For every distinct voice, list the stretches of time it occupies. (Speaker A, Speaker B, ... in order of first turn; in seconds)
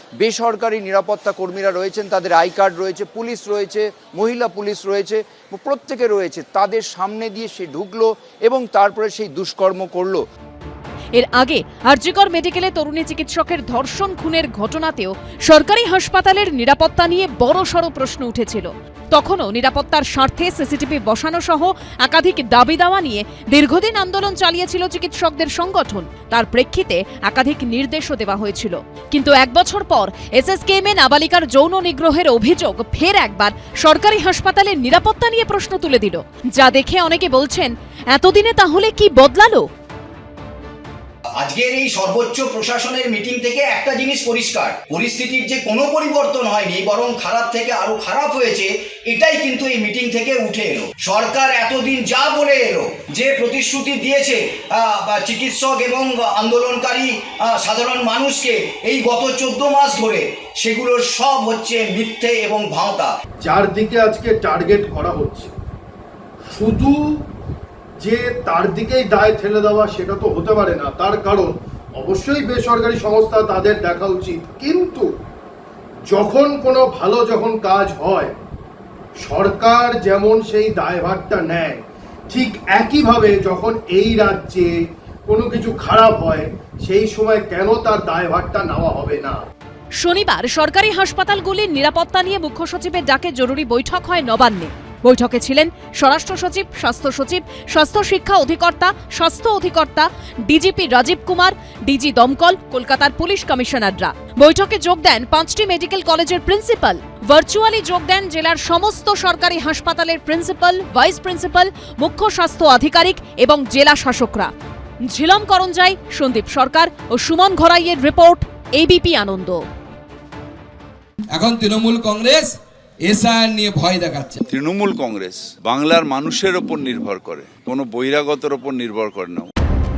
Speaker A: 0.2-10.2
Speaker B: 11.1-39.7, 90.0-114.5, 115.1-119.6
Speaker C: 41.3-63.2
Speaker D: 63.4-65.5, 66.5-67.0, 68.0-75.1, 76.1-78.3, 79.2-84.8, 85.3-89.4
Speaker E: 121.3-124.4
Speaker F: 124.5-129.5